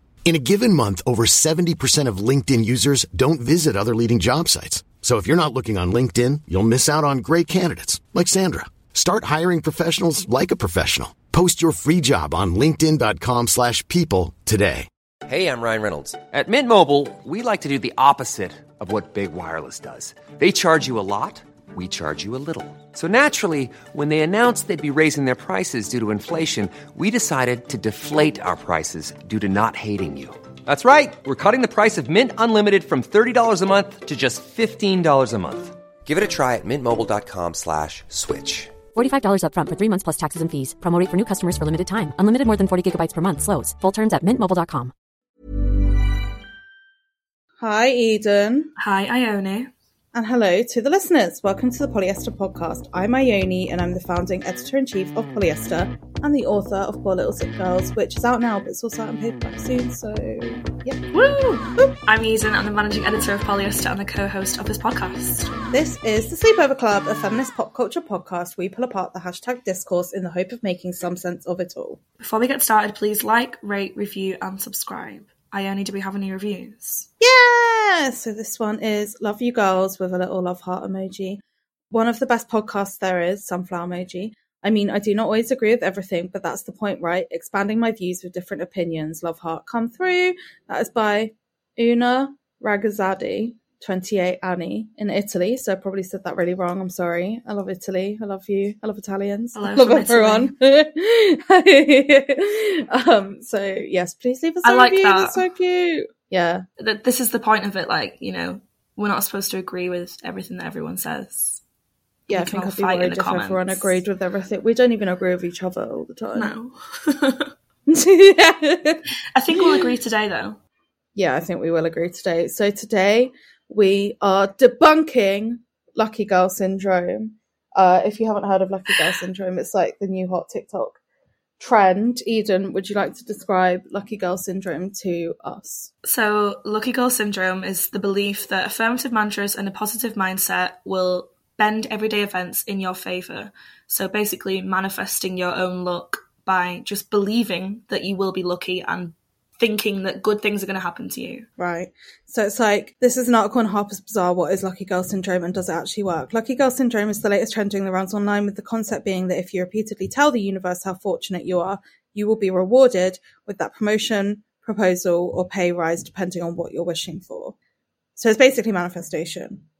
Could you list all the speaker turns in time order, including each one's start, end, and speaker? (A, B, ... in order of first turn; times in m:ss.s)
0:00.2-0:14.9 A
0:15.2-0:38.8 B
0:38.9-0:44.9 C
0:47.6-0:48.7 D
0:48.8-0:49.7 E
0:50.1-1:01.0 D
1:01.1-1:05.5 E
1:05.7-1:12.0 D
1:12.2-1:17.1 E
1:17.2-1:46.6 D
1:39.6-1:40.5 E
1:44.6-1:45.4 E
1:46.8-1:51.6 E
1:52.3-1:53.9 E
1:52.3-1:56.5 D
1:56.3-1:57.5 E
1:57.9-1:59.0 D
1:59.3-2:00.6 E
1:59.6-1:59.9 D
2:01.2-2:11.0 D
2:11.6-2:15.9 D
2:16.0-2:31.5 E
2:31.6-2:47.5 D
2:48.2-2:49.6 D